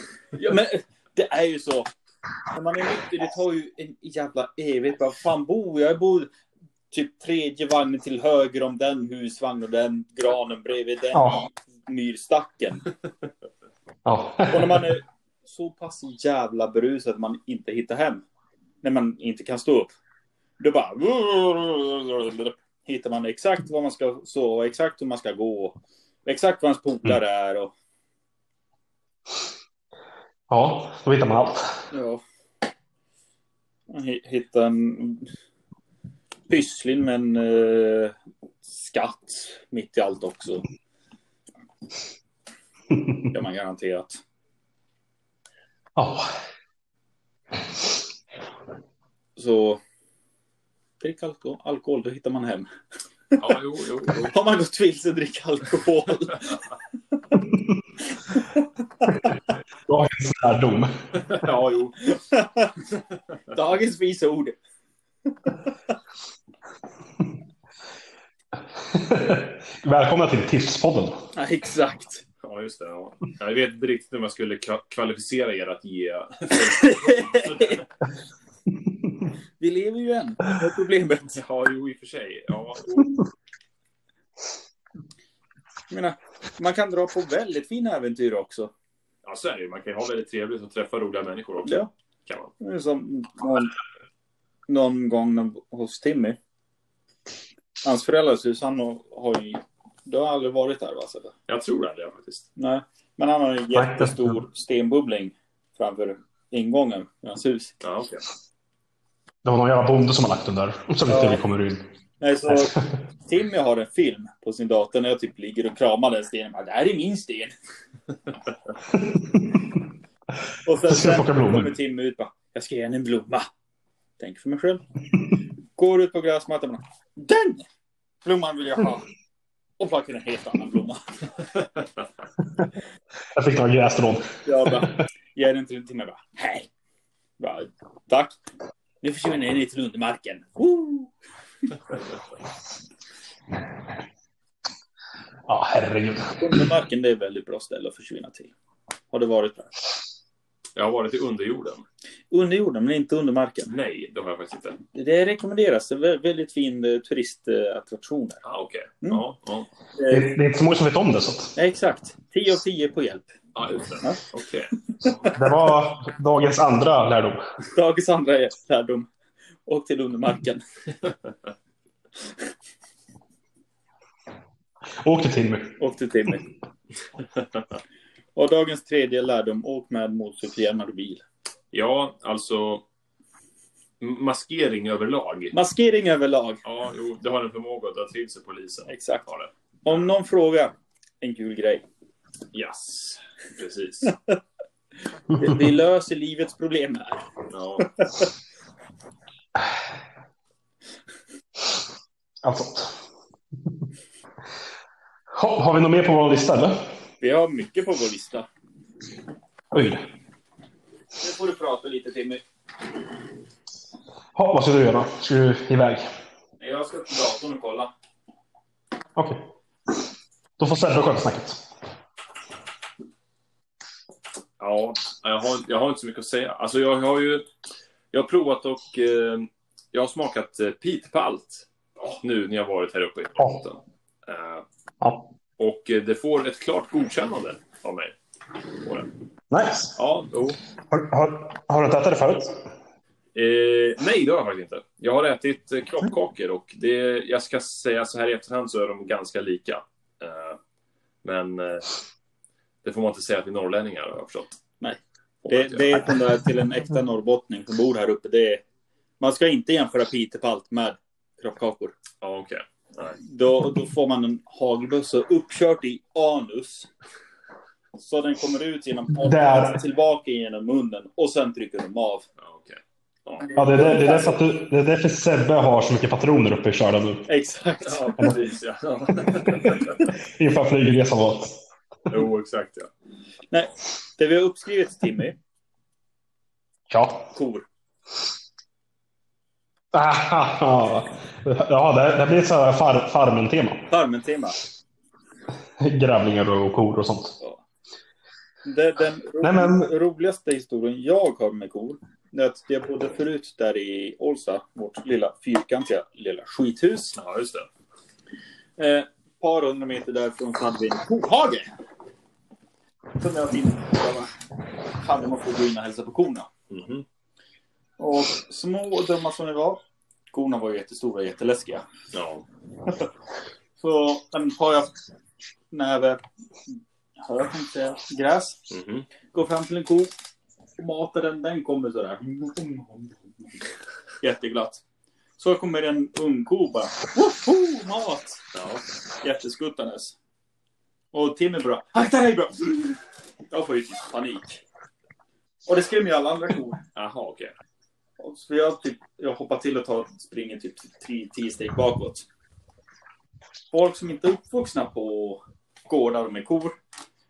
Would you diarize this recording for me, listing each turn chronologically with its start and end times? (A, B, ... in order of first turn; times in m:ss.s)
0:00.3-0:01.9 A
0:02.5-0:06.3 A
0:06.9-0:12.8 A
0:11.1-0:11.4 B
0:14.0-0:14.9 B
0:14.5-0:18.2 A
0:18.8-0:20.0 A
0:20.6-0:27.7 A
0:30.5-0:31.7 B
0:31.9-0:32.2 A
0:33.9-0:35.3 A
0:36.5-0:38.2 A
0:38.7-0:40.6 A
0:43.3-0:44.2 A
0:46.0-0:46.3 B
0:49.4-0:49.8 A
0:51.0-0:52.7 A
0:53.4-0:54.4 C
0:54.1-0:56.7 A
0:59.9-1:01.0 B
1:01.2-1:02.0 C
1:02.1-1:02.7 A
1:03.5-1:04.6 A
1:08.9-1:11.2 B
1:11.4-1:12.2 A
1:12.4-1:17.9 C
1:16.7-1:17.8 A
1:19.6-1:21.4 A
1:21.3-1:23.2 C
1:25.9-1:28.7 A
1:29.2-1:32.5 C
1:31.6-1:31.9 A
1:32.6-1:33.7 A
1:34.7-1:36.4 A
1:37.8-1:41.3 A
1:41.5-1:42.5 C
1:42.6-1:47.8 A
1:43.8-1:44.4 B
1:47.8-1:48.2 C
1:49.4-1:51.8 B
1:51.1-1:51.4 A
1:52.2-1:57.5 A
1:52.5-1:52.7 B
1:59.2-1:59.6 B
2:00.6-2:03.5 A
2:00.9-2:01.7 B
2:04.2-2:04.8 A
2:05.8-2:07.6 A
2:08.2-2:09.0 A
2:09.8-2:11.0 A
2:13.3-2:14.8 B
2:14.4-2:16.7 A
2:17.4-2:18.4 A
2:19.0-2:21.1 A
2:25.5-2:26.6 B
2:26.4-2:28.5 A
2:29.1-2:29.7 A
2:30.8-2:31.8 C
2:32.3-2:33.7 A
2:33.7-2:34.8 C
2:34.9-2:38.4 A
2:38.4-2:39.7 C
2:40.0-2:40.3 A
2:40.1-2:41.6 B
2:41.6-2:43.4 A
2:43.6-2:44.7 C
2:45.3-2:47.4 B
2:47.7-2:49.1 A
2:49.7-2:50.6 A
2:55.0-2:55.8 B
2:55.8-2:56.5 A
2:58.4-3:01.2 A
3:01.7-3:02.8 C
3:04.0-3:05.5 C
3:05.5-3:06.6 A
3:06.6-3:10.1 C
3:08.9-3:09.3 A
3:09.8-3:11.8 A
3:12.5-3:14.1 C
3:15.3-3:17.3 A
3:17.5-3:17.9 C
3:22.4-3:22.9 B
3:25.3-3:26.8 B
3:27.2-3:28.5 A
3:29.7-3:30.0 B
3:31.2-3:32.4 A
3:34.4-3:36.1 B
3:36.6-3:37.9 A
3:39.2-3:39.4 B
3:40.6-3:41.6 B
3:44.6-3:47.5 C
3:48.1-3:54.6 C
3:55.0-3:55.3 B
3:55.6-3:58.2 C
3:58.8-3:59.1 C
3:59.5-4:00.0 B
4:00.0-4:00.6 C
4:00.9-4:02.6 B
4:03.4-4:10.6 C
4:11.2-4:11.9 C
4:12.8-4:14.6 C
4:14.8-4:18.6 A
4:15.4-4:16.1 C
4:19.2-4:22.0 A
4:22.2-4:23.2 C
4:23.3-4:26.9 A
4:28.0-4:32.3 A
4:29.2-4:29.8 B
4:32.4-4:33.5 C
4:33.4-4:34.4 A
4:33.6-4:37.3 B
4:37.3-4:38.4 A
4:37.8-4:40.1 C
4:39.5-4:39.8 B
4:40.4-4:41.6 B
4:42.1-4:42.9 C
4:43.5-4:45.4 A
4:46.9-4:47.3 B
4:47.3-4:47.7 A
4:49.9-4:53.9 B
4:53.9-4:54.6 A
4:55.8-4:57.4 B
4:58.6-5:07.2 A
4:59.4-4:59.9 B
5:07.2-5:07.7 C
5:08.8-5:11.8 A
5:13.2-5:14.3 A
5:15.0-5:16.5 A
5:16.7-5:17.0 C
5:18.0-5:19.8 A
5:20.3-5:21.9 A
5:22.1-5:22.5 C
5:23.8-5:24.9 A
5:25.7-5:28.6 A
5:28.7-5:29.1 C
5:29.3-5:30.1 A
5:30.8-5:33.2 A
5:34.2-5:34.8 A
5:35.4-5:38.4 A
5:38.5-5:38.8 C
5:39.2-5:40.2 A
5:41.1-5:43.0 A
5:43.5-5:44.6 A
5:45.7-5:46.8 A
5:47.0-5:47.5 C
5:48.2-5:52.3 A
5:53.7-5:56.8 A